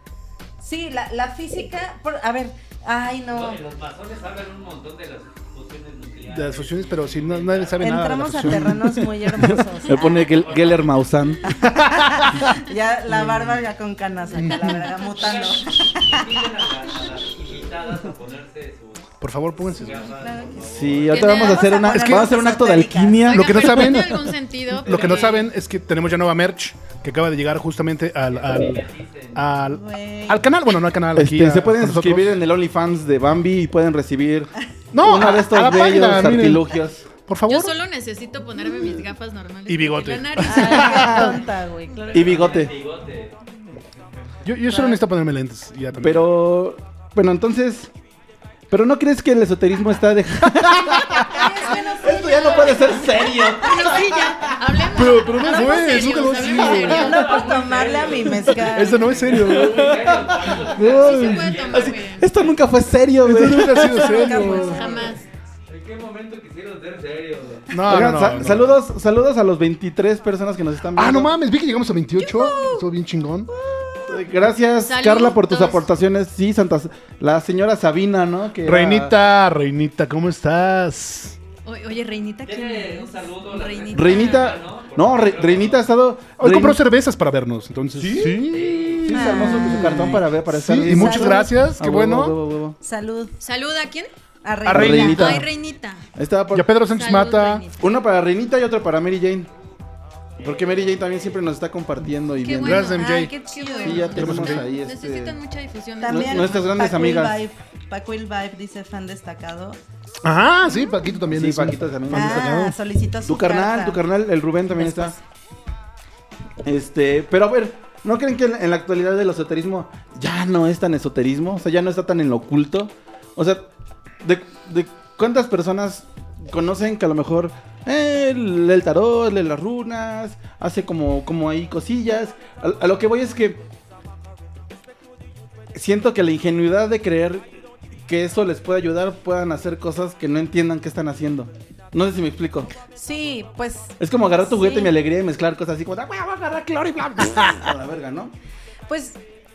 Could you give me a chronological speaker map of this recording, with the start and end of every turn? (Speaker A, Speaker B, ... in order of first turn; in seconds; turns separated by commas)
Speaker A: 0.6-3.6, Speaker B: 3.3-8.0, Speaker C: 6.3-9.1, Speaker A: 7.8-10.4, Speaker D: 9.3-11.5, Speaker B: 10.2-10.9, Speaker A: 11.4-16.4, Speaker D: 13.1-13.5, Speaker C: 14.4-14.8, Speaker B: 15.1-19.1, Speaker C: 19.2-20.0, Speaker B: 19.7-21.4, Speaker A: 19.9-20.6, Speaker D: 20.6-24.2, Speaker E: 21.1-21.9, Speaker A: 21.2-23.3, Speaker C: 21.9-22.3, Speaker E: 23.2-25.5, Speaker C: 23.3-32.4, Speaker B: 24.9-25.3, Speaker B: 28.3-29.5, Speaker A: 29.7-30.4, Speaker D: 31.1-37.1, Speaker C: 34.9-37.8, Speaker E: 37.5-41.3, Speaker C: 39.7-41.4, Speaker A: 40.4-42.5, Speaker B: 42.1-43.3, Speaker D: 42.1-42.7, Speaker C: 44.4-46.3, Speaker A: 44.7-45.0, Speaker D: 45.9-47.9, Speaker D: 48.7-54.3, Speaker E: 51.1-57.6, Speaker A: 51.3-51.7, Speaker A: 53.6-54.3, Speaker C: 54.9-57.2, Speaker A: 56.6-59.2, Speaker B: 56.7-61.9, Speaker C: 58.5-60.0, Speaker D: 59.3-64.6, Speaker C: 60.7-61.6, Speaker E: 60.9-62.3, Speaker C: 63.2-64.8, Speaker A: 63.8-65.2, Speaker E: 64.2-65.2, Speaker B: 65.7-67.9, Speaker C: 67.7-68.8, Speaker D: 67.9-71.4, Speaker C: 70.9-73.5, Speaker E: 72.2-72.9, Speaker A: 73.6-74.1, Speaker D: 74.1-79.1, Speaker E: 74.8-75.8, Speaker C: 78.6-81.4, Speaker E: 81.6-84.6, Speaker B: 82.5-85.8, Speaker D: 83.9-86.8, Speaker C: 86.4-92.4, Speaker D: 87.9-92.8, Speaker B: 88.4-89.1, Speaker A: 89.1-90.2, Speaker A: 90.8-91.5, Speaker A: 92.8-93.4, Speaker E: 93.4-94.1, Speaker A: 94.4-95.4, Speaker C: 94.6-95.5, Speaker D: 94.7-95.5, Speaker E: 94.8-96.1, Speaker D: 96.2-96.7, Speaker C: 96.5-97.7, Speaker E: 96.9-97.9, Speaker D: 97.8-99.5, Speaker D: 100.4-103.0, Speaker E: 102.4-106.8, Speaker C: 102.6-103.3, Speaker A: 103.0-104.3, Speaker D: 103.8-105.4, Speaker C: 104.2-104.7, Speaker A: 106.0-109.8, Speaker D: 106.0-107.4, Speaker C: 110.2-112.7, Speaker D: 111.3-112.7, Speaker A: 112.1-114.0, Speaker D: 113.2-115.1, Speaker A: 114.7-115.2, Speaker D: 116.6-123.7, Speaker D: 124.2-133.6, Speaker D: 135.7-137.5, Speaker D: 138.0-142.7, Speaker A: 142.9-144.9, Speaker D: 144.0-148.3, Speaker A: 148.9-149.2